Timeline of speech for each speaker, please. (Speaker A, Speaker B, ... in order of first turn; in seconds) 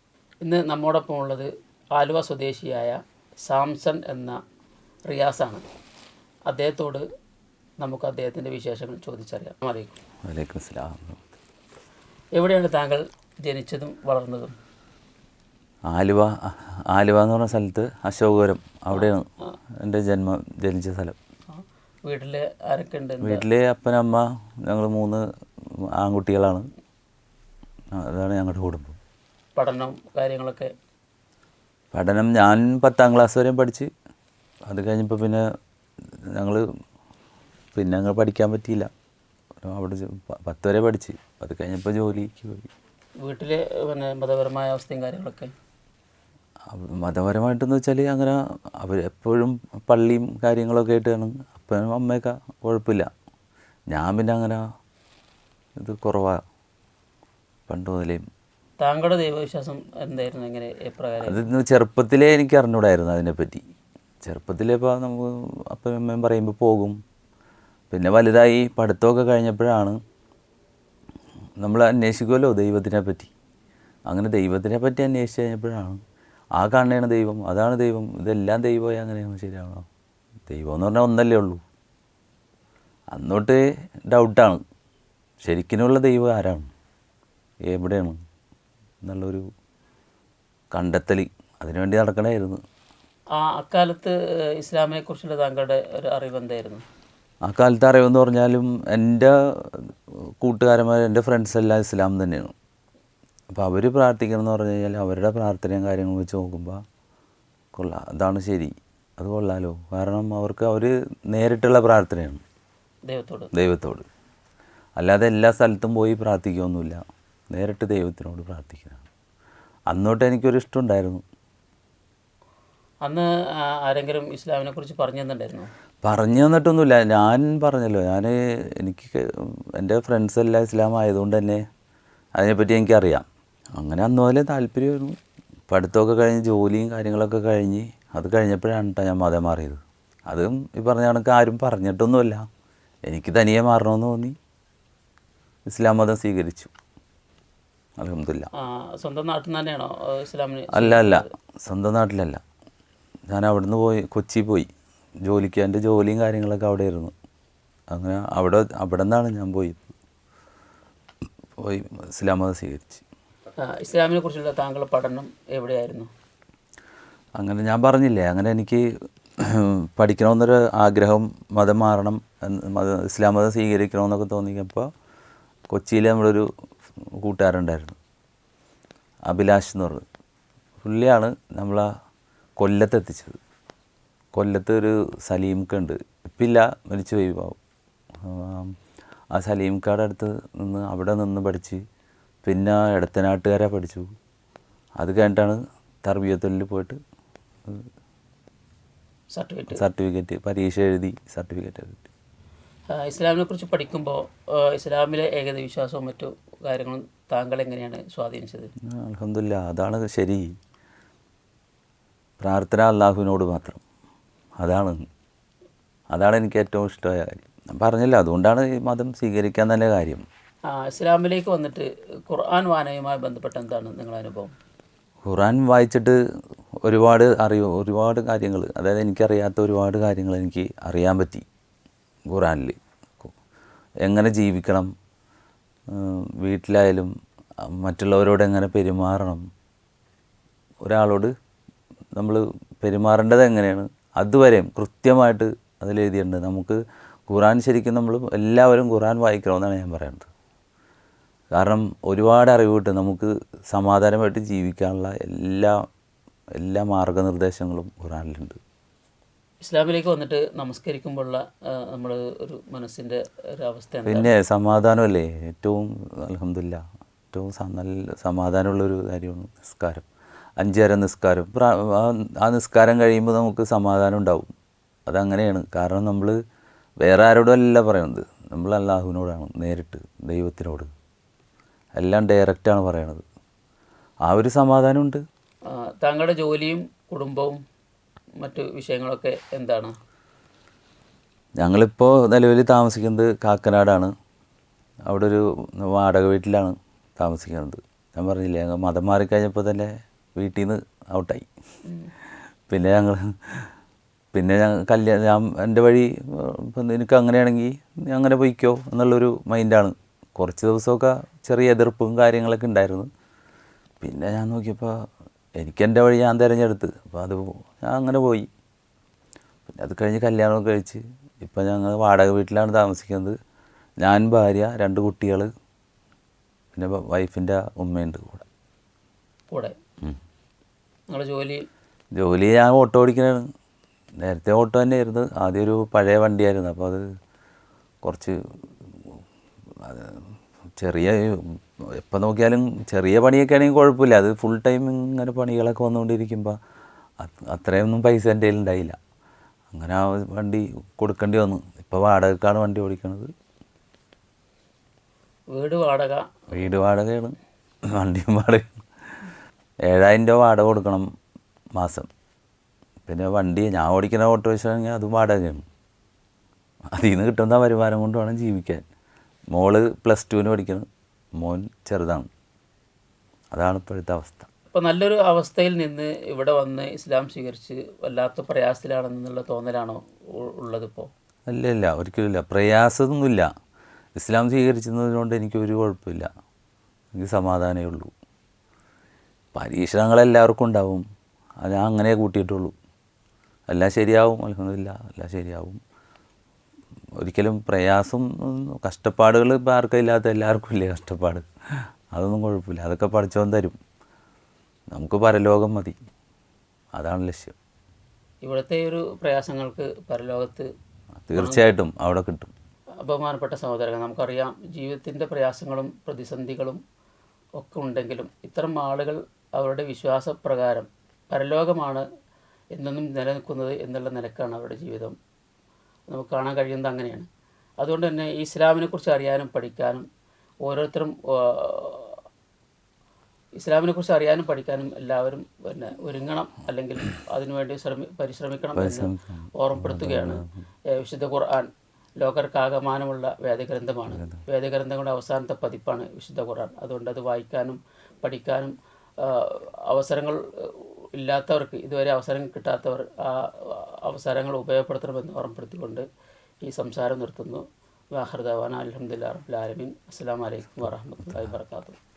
Speaker A: 0.4-4.4, 5.1-5.6, 6.5-7.0, 7.8-10.0, 12.3-14.5, 21.5-23.4, 29.6-30.7, 43.2-45.5, 58.8-61.5, 93.3-96.8, 113.1-113.5, 123.0-125.7, 148.6-151.2, 163.6-166.1, 199.3-199.8, 202.9-208.7, 220.7-224.5, 259.6-264.3, 285.7-287.6, 288.4-289.9, 331.1-331.6, 355.5-356.3, 374.7-381.1, 408.4-410.7, 411.3-411.7, 413.0-416.8, 417.6-422.0, 422.7-425.1, 426.1-427.2, 427.8-430.1, 430.6-432.2, 433.6-456.0, 456.6-462.0
Speaker B: 10.2-11.2, 15.9-19.2, 19.8-21.1, 23.2-26.7, 27.9-29.0, 31.9-33.9, 34.7-35.4, 36.3-36.6, 37.7-38.9, 39.6-42.7, 46.7-53.1, 53.9-54.6, 55.8-56.4, 57.7-58.2, 61.2-63.6, 64.2-67.0, 67.9-70.0, 71.6-73.3, 74.1-76.0, 76.5-79.8, 80.5-81.6, 83.1-84.6, 85.4-86.7, 87.7-88.2, 89.0-89.4, 90.7-92.6, 97.4-102.5, 103.5-106.8, 107.7-112.4, 113.5-114.0, 115.0-117.0, 117.5-119.0, 119.9-121.2, 126.0-131.6, 132.3-133.2, 133.8-135.2, 135.7-142.4, 143.1-144.3, 145.7-146.7, 148.0-148.5, 150.7-152.4, 153.3-154.7, 155.2-157.1, 157.9-159.9, 161.6-163.0, 167.4-168.8, 169.4-174.9, 175.7-176.5, 177.1-178.0, 179.3-180.0, 180.8-181.9, 182.6-183.4, 184.3-187.6, 188.2-188.7, 189.3-191.8, 192.4-194.1, 195.0-197.0, 199.7-202.1, 208.9-210.6, 212.4-213.8, 214.6-215.0, 216.1-220.2, 225.2-226.2, 226.8-231.4, 232.3-233.3, 234.0-234.9, 235.9-239.4, 240.8-241.3, 242.1-250.3, 251.5-255.8, 256.6-258.6, 264.1-270.1, 270.6-274.5, 275.1-276.4, 277.0-280.9, 281.9-283.2, 284.2-285.2, 291.6-294.1, 295.1-301.5, 302.7-303.7, 304.3-313.1, 314.0-314.9, 315.6-318.5, 319.7-323.3, 324.0-325.5, 326.7-328.4, 332.1-333.4, 334.2-337.0, 338.0-338.4, 339.8-346.6, 347.2-349.0, 349.7-353.3, 356.5-357.4, 357.9-358.8, 359.9-361.1, 361.7-362.1, 363.1-365.6, 366.9-368.9, 369.5-370.9, 371.4-372.3, 373.5-374.5, 381.5-383.5, 384.1-386.3, 387.1-388.1, 389.5-391.0, 391.6-392.7, 393.7-395.8, 397.2-401.4, 402.1-403.8, 404.9-406.0, 406.9-407.6, 411.3-412.5, 438.7-440.6